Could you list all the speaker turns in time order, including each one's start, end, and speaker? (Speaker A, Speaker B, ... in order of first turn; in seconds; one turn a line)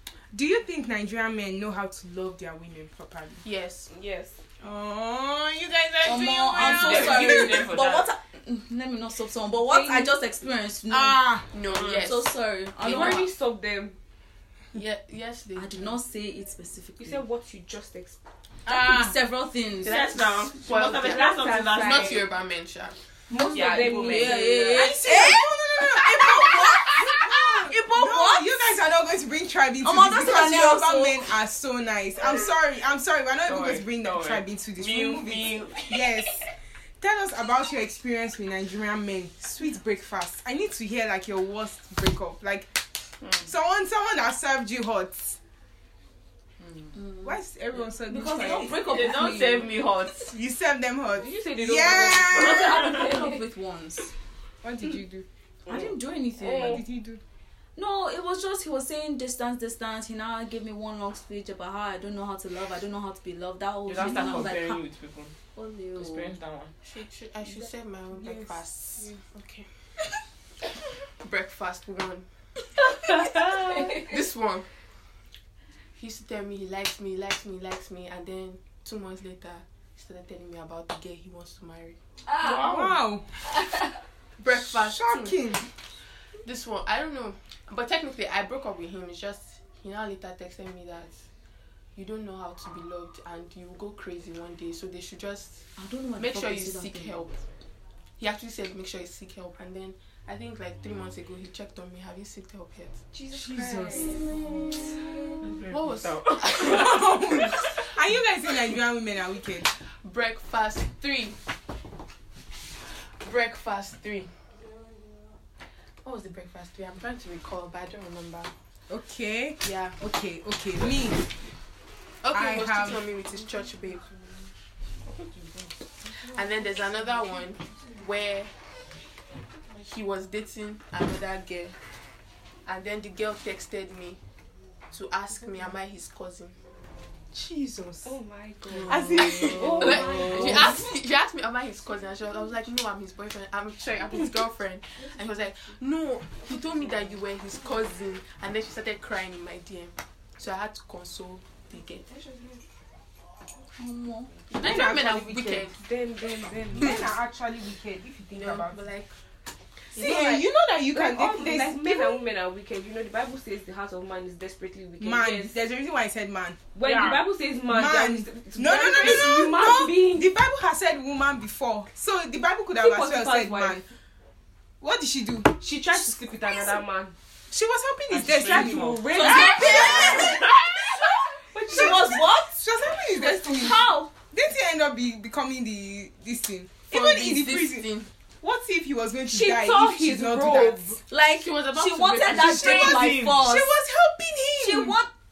Speaker A: 0.3-3.4
Speaker B: 3.4-3.9
Speaker C: 3.9-4.4
Speaker A: 4.6-7.7
Speaker D: 6.0-13.3
Speaker E: 6.5-8.1
Speaker C: 9.7-10.1
Speaker A: 10.9-11.4
Speaker B: 11.1-13.3
Speaker E: 11.7-12.1
Speaker C: 12.8-14.0
Speaker B: 14.7-16.0
Speaker D: 15.6-17.2
Speaker C: 17.0-18.2
Speaker A: 18.7-19.2
Speaker D: 18.7-20.0
Speaker B: 19.8-23.0
Speaker E: 19.9-22.2
Speaker C: 20.9-22.2
Speaker C: 23.3-25.0
Speaker E: 23.5-24.6
Speaker D: 23.6-28.8
Speaker A: 24.7-36.5
Speaker D: 29.8-31.3
Speaker E: 33.5-36.2
Speaker A: 37.0-42.7
Speaker A: 43.4-45.4
Speaker E: 46.6-47.0
Speaker A: 47.2-49.3
Speaker C: 48.1-49.5
Speaker D: 48.2-49.5
Speaker E: 48.5-50.3
Speaker A: 50.2-52.9
Speaker C: 51.2-53.4
Speaker D: 51.9-54.1
Speaker A: 54.6-55.9
Speaker D: 55.7-56.8
Speaker A: 56.5-57.2
Speaker C: 56.5-56.8
Speaker D: 57.8-64.8
Speaker E: 63.9-65.3
Speaker D: 65.5-66.3
Speaker E: 66.0-66.7
Speaker B: 66.8-69.7
Speaker B: 71.2-72.3
Speaker B: 73.0-74.7
Speaker C: 73.6-74.0
Speaker B: 76.0-82.0
Speaker C: 82.4-82.7
Speaker E: 82.5-82.9
Speaker A: 82.5-83.3
Speaker B: 84.4-85.4
Speaker A: 84.5-85.7
Speaker B: 86.4-91.2
Speaker B: 92.0-97.4
Speaker D: 95.8-97.2
Speaker B: 98.2-103.0
Speaker C: 103.1-104.6
Speaker A: 103.3-104.7
Speaker E: 105.4-107.7
Speaker B: 105.7-107.0
Speaker A: 106.5-109.7
Speaker B: 110.0-111.4
Speaker B: 113.2-114.3
Speaker B: 116.0-118.5
Speaker A: 118.9-121.3
Speaker B: 119.6-120.0
Speaker B: 122.2-124.1
Speaker A: 122.3-123.1
Speaker B: 126.2-128.5
Speaker B: 129.7-131.8
Speaker B: 132.7-134.2
Speaker B: 134.9-136.6
Speaker A: 137.3-138.2
Speaker C: 138.1-140.8
Speaker D: 138.7-140.8
Speaker A: 138.9-140.8
Speaker B: 139.5-152.1
Speaker C: 152.1-152.6
Speaker D: 153.8-154.4
Speaker B: 154.5-155.8
Speaker A: 154.6-155.7
Speaker C: 155.8-157.1
Speaker A: 156.7-158.8
Speaker B: 158.3-159.1
Speaker A: 160.0-162.2
Speaker B: 160.0-160.4
Speaker C: 160.0-160.4
Speaker C: 160.9-165.6
Speaker A: 165.0-173.9
Speaker C: 166.7-170.3
Speaker E: 166.8-167.2
Speaker C: 172.8-173.8
Speaker A: 174.8-175.6
Speaker C: 175.6-177.2
Speaker A: 177.5-180.5
Speaker E: 178.1-180.6
Speaker C: 178.4-182.2
Speaker D: 179.1-180.5
Speaker D: 181.7-182.6
Speaker A: 181.7-187.9
Speaker D: 183.2-184.1
Speaker B: 186.9-188.1
Speaker A: 188.4-191.0
Speaker C: 189.3-191.0
Speaker D: 191.1-193.8
Speaker B: 191.4-192.9
Speaker E: 192.3-193.4
Speaker A: 192.3-195.0
Speaker D: 194.6-195.1